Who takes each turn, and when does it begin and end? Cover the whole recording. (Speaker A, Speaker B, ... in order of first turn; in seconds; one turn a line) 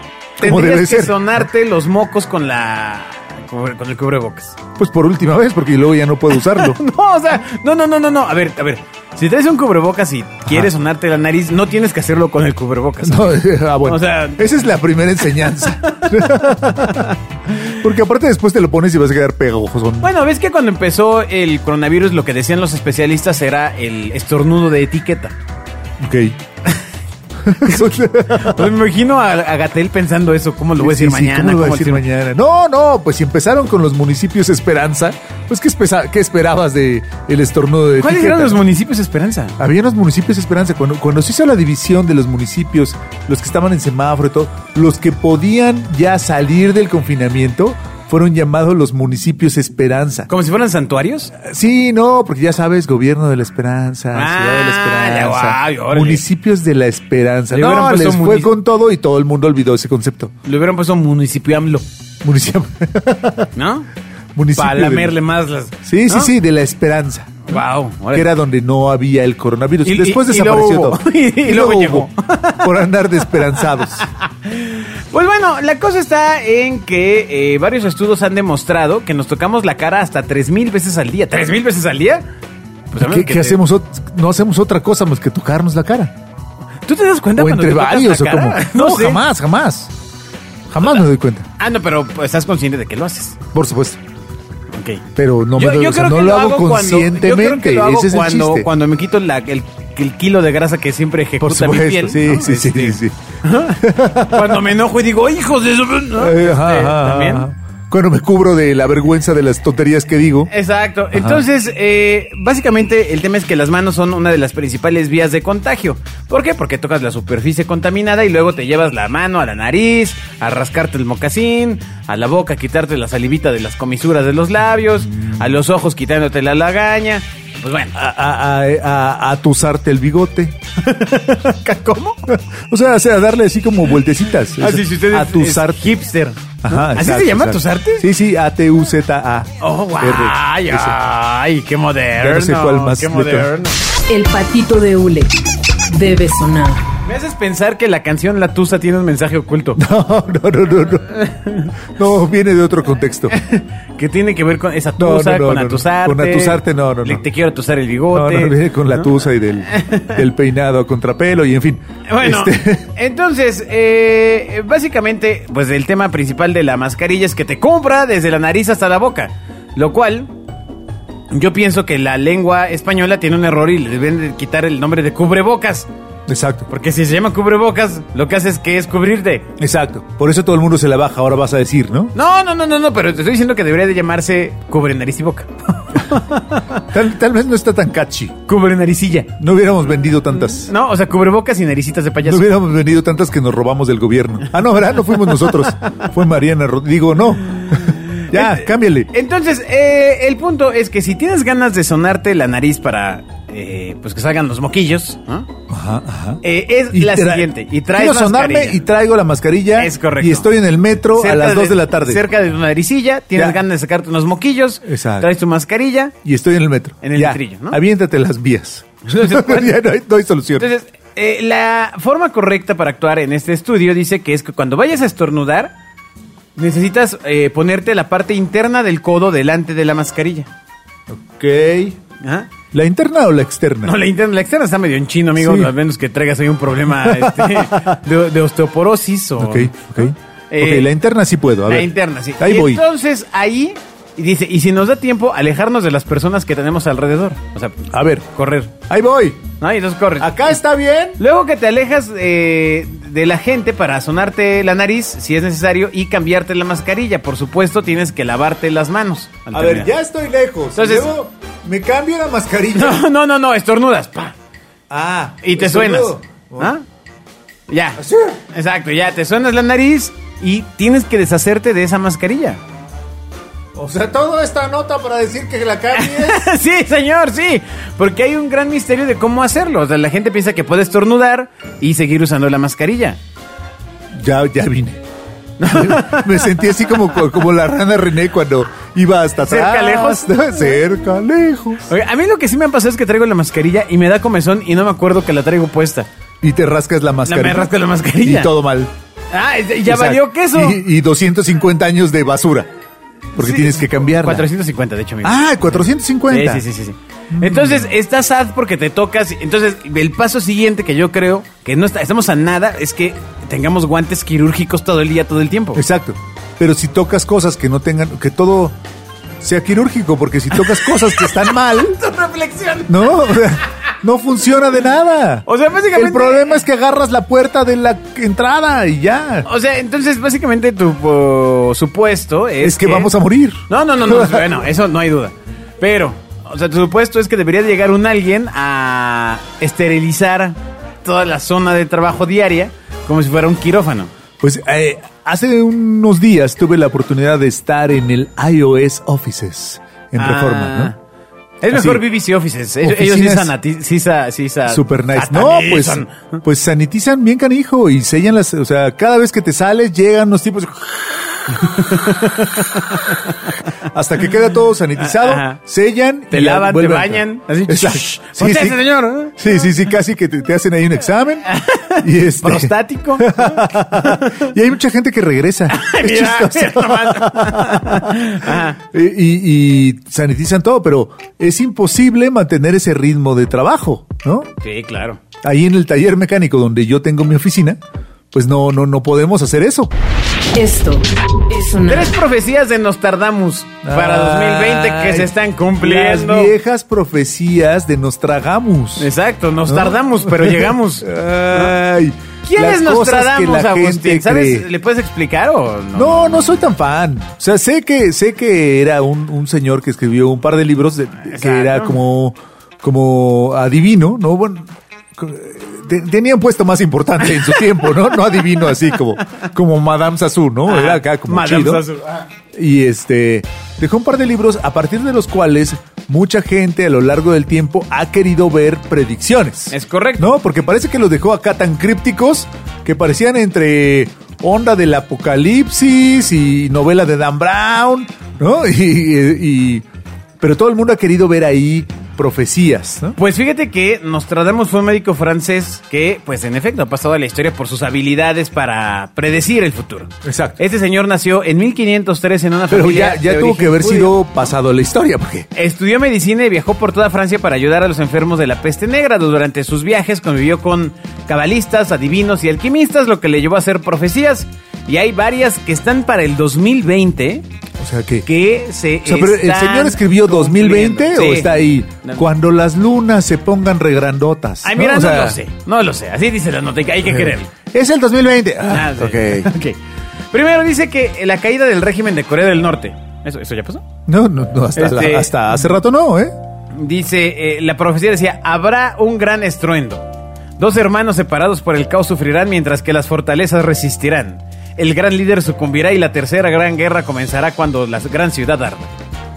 Speaker A: 0.4-4.6
Speaker B: 0.4-1.4
Speaker B: 4.8-6.8
Speaker A: 6.3-14.5
Speaker B: 10.5-10.7
Speaker B: 13.0-17.1
Speaker A: 15.3-17.2
Speaker B: 17.6-20.1
Speaker A: 20.0-25.3
Speaker B: 26.0-26.4
Speaker B: 27.4-28.7
Speaker A: 27.7-32.0
Speaker B: 30.8-38.6
Speaker A: 38.0-39.5
Speaker B: 39.6-50.3
Speaker A: 50.3-51.3
Speaker B: 51.4-60.3
Speaker A: 54.1-56.2
Speaker A: 57.5-58.5
Speaker A: 60.4-61.8
Speaker B: 62.2-63.5
Speaker A: 63.5-63.9
Speaker B: 64.3-65.1
Speaker A: 64.5-66.3
Speaker B: 65.8-67.6
Speaker A: 67.5-68.3
Speaker B: 68.1-74.1
Speaker A: 69.8-72.8
Speaker A: 73.4-82.2
Speaker A: 82.9-83.6
Speaker B: 83.0-86.1
Speaker A: 86.8-89.2
Speaker B: 87.4-89.9
Speaker B: 90.7-91.5
Speaker A: 91.6-93.4
Speaker B: 93.5-94.0
Speaker A: 94.7-95.0
Speaker B: 95.2-98.7
Speaker A: 95.6-107.5
Speaker B: 101.4-103.2
Speaker B: 103.8-104.6
Speaker B: 106.2-110.5
Speaker A: 110.5-127.9
Speaker B: 111.1-111.4
Speaker B: 127.9-130.6
Speaker A: 130.8-132.2
Speaker B: 132.3-136.0
Speaker A: 134.6-138.1
Speaker B: 136.6-141.0
Speaker A: 139.6-143.8
Speaker B: 142.2-143.5
Speaker C: 144.1-145.3
Speaker C: 145.9-146.8
Speaker A: 147.0-149.8
Speaker B: 149.8-151.1
Speaker A: 151.1-151.7
Speaker B: 151.9-153.3
Speaker A: 153.3-159.1
Speaker B: 155.0-157.2
Speaker B: 158.1-162.9
Speaker A: 159.6-160.2
Speaker A: 162.1-170.3
Speaker A: 171.3-175.9
Speaker B: 176.3-176.7
Speaker A: 176.7-179.5
Speaker B: 179.6-182.1
Speaker A: 182.1-186.8
Speaker B: 186.9-188.4
Speaker A: 188.5-189.3
Speaker B: 189.4-190.7
Speaker A: 190.4-192.5
Speaker B: 192.2-199.1
Speaker A: 195.3-195.7
Speaker A: 197.7-205.5
Speaker B: 205.7-212.2
Speaker A: 206.4-208.8
Speaker A: 209.8-210.5
Speaker A: 211.1-216.1
Speaker B: 214.8-215.3
Speaker B: 216.2-220.7
Speaker A: 217.0-217.8
Speaker A: 219.1-219.8
Speaker A: 220.6-225.7
Speaker A: 226.6-230.5
Speaker B: 231.1-232.0
Speaker A: 232.2-232.5
Speaker B: 232.7-234.0
Speaker A: 233.8-240.9
Speaker B: 235.4-235.7
Speaker B: 236.9-238.0
Speaker B: 239.4-242.8
Speaker A: 241.7-248.7
Speaker B: 247.9-248.3
Speaker B: 248.9-249.4
Speaker A: 249.6-250.4
Speaker B: 250.2-251.2
Speaker A: 251.2-259.9
Speaker B: 259.5-263.0
Speaker A: 260.8-261.1
Speaker A: 262.7-264.3
Speaker B: 264.9-266.7
Speaker A: 265.4-266.8
Speaker A: 267.7-268.0
Speaker B: 268.0-268.4
Speaker A: 268.5-272.6
Speaker B: 273.7-276.5
Speaker A: 275.9-283.2
Speaker B: 284.1-285.0
Speaker A: 285.6-287.1
Speaker B: 285.7-291.9
Speaker A: 289.4-290.4
Speaker A: 291.9-296.1
Speaker B: 296.4-298.9
Speaker A: 297.3-298.5
Speaker A: 299.3-300.8
Speaker B: 299.9-302.7
Speaker B: 303.3-304.5
Speaker A: 303.4-315.8
Speaker B: 305.2-306.6
Speaker B: 307.3-307.9
Speaker B: 315.7-318.7
Speaker B: 319.4-322.0
Speaker A: 320.5-323.6
Speaker B: 322.9-329.5
Speaker A: 325.5-326.6
Speaker A: 329.4-333.1
Speaker B: 332.6-334.6
Speaker A: 333.7-344.1
Speaker B: 344.4-350.9
Speaker A: 350.2-350.9
Speaker A: 351.6-356.4
Speaker B: 351.7-352.0
Speaker B: 352.8-353.5
Speaker B: 354.7-362.0
Speaker A: 361.5-363.6
Speaker B: 363.9-368.8
Speaker A: 365.0-365.6
Speaker A: 366.3-369.5
Speaker B: 369.3-371.5
Speaker A: 371.5-374.5
Speaker B: 372.0-384.5
Speaker A: 375.7-378.8
Speaker A: 384.6-385.2
Speaker B: 385.4-387.8
Speaker B: 388.3-389.9
Speaker C: 390.5-392.1
Speaker A: 391.9-396.5
Speaker B: 393.8-399.1
Speaker A: 399.0-401.8
Speaker B: 399.6-404.7
Speaker A: 402.4-406.6
Speaker B: 405.9-421.8
Speaker A: 411.3-412.0
Speaker A: 417.4-417.6
Speaker A: 420.7-422.3
Speaker B: 422.5-439.8
Speaker A: 429.7-430.3
Speaker B: 440.4-443.2
Speaker A: 443.2-454.2
Speaker B: 450.2-450.6
Speaker B: 452.7-455.5
Speaker A: 455.5-467.4
Speaker B: 467.8-468.3
Speaker A: 468.2-472.2
Speaker B: 469.0-475.4
Speaker A: 474.6-477.5
Speaker B: 477.1-479.5
Speaker A: 478.7-479.8
Speaker A: 480.3-483.8
Speaker B: 484.1-486.3
Speaker A: 484.8-485.4
Speaker A: 486.7-490.1
Speaker A: 490.6-498.9